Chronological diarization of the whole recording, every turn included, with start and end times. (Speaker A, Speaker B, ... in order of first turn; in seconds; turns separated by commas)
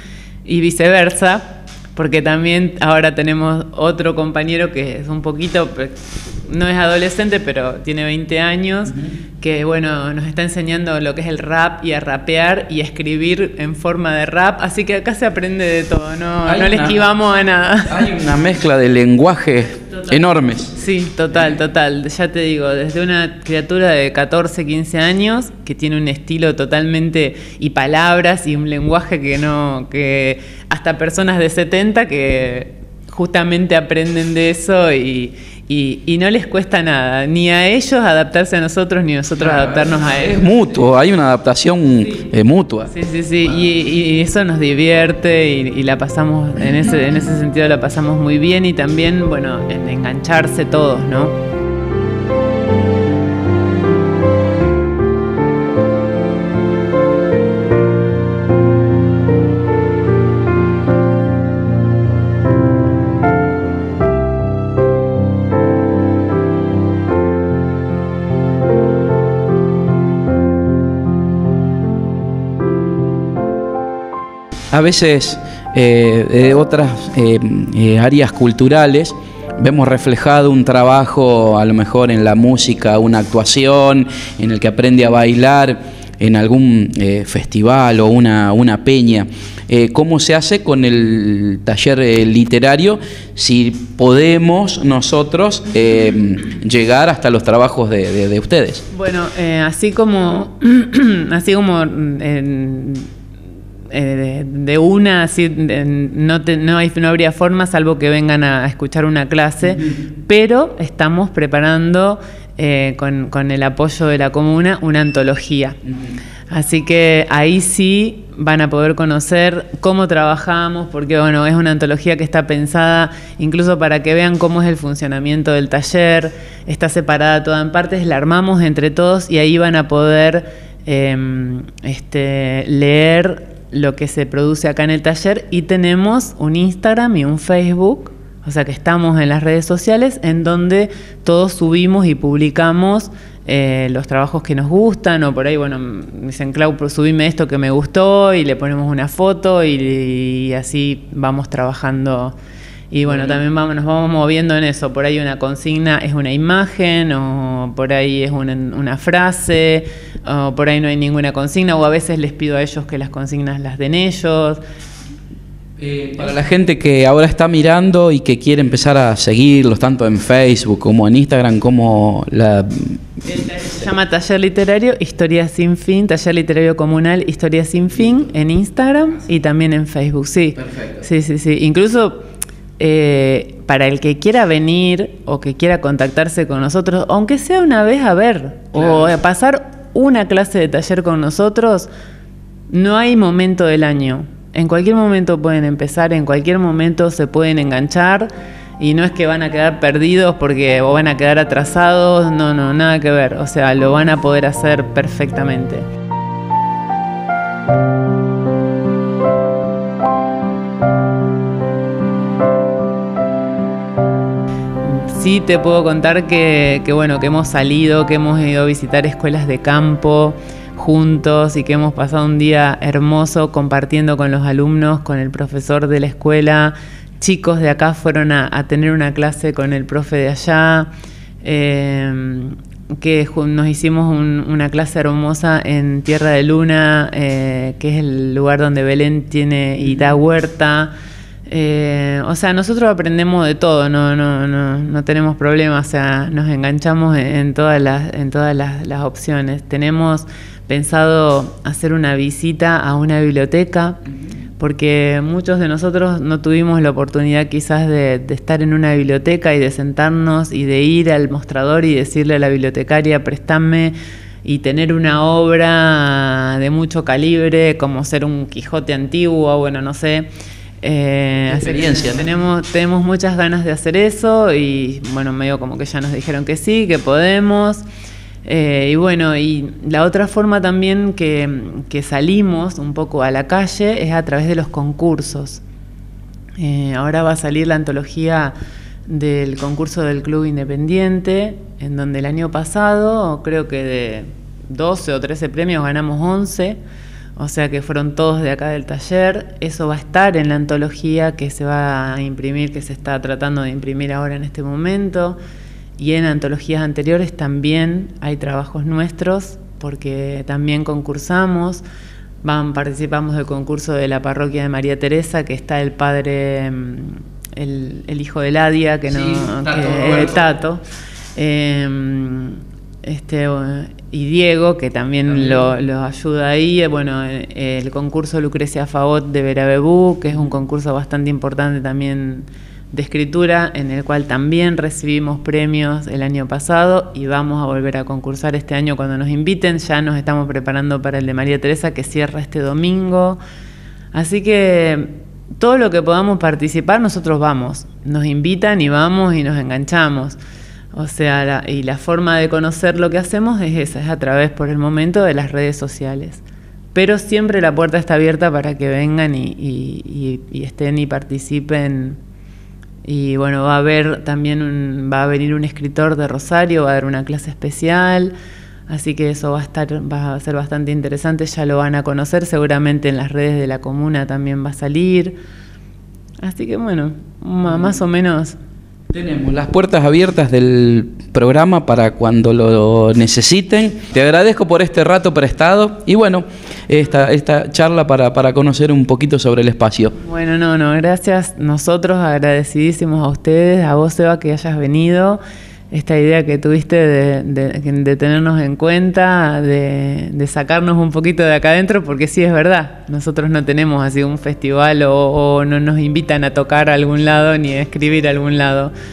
Speaker A: 0.5-18.1, Speaker B: 16.4-17.0, Speaker B: 17.9-20.7, Speaker A: 20.7-40.4, Speaker B: 39.4-42.9, Speaker A: 42.9-51.4, Speaker B: 74.7-98.8, Speaker A: 98.9-103.1, Speaker A: 103.9-115.8, Speaker A: 116.5-152.3, Speaker A: 152.9-164.6, Speaker B: 165.8-173.2, Speaker A: 173.2-182.2, Speaker B: 180.6-181.0, Speaker A: 182.8-191.9, Speaker A: 192.7-205.9, Speaker A: 214.8-230.9, Speaker A: 231.4-240.9, Speaker A: 241.5-254.0, Speaker A: 254.6-270.3, Speaker A: 270.8-277.8, Speaker B: 271.5-272.2, Speaker A: 278.4-285.6, Speaker A: 286.6-288.5, Speaker A: 289.1-296.8, Speaker A: 297.4-305.4, Speaker A: 306.0-311.8, Speaker A: 312.4-320.8, Speaker B: 319.1-320.4, Speaker A: 321.4-343.4, Speaker B: 325.3-325.6, Speaker A: 344.1-350.4, Speaker A: 350.9-362.2, Speaker A: 363.0-368.3, Speaker A: 368.9-375.4, Speaker A: 376.4-378.6, Speaker B: 379.1-390.1, Speaker A: 390.2-408.9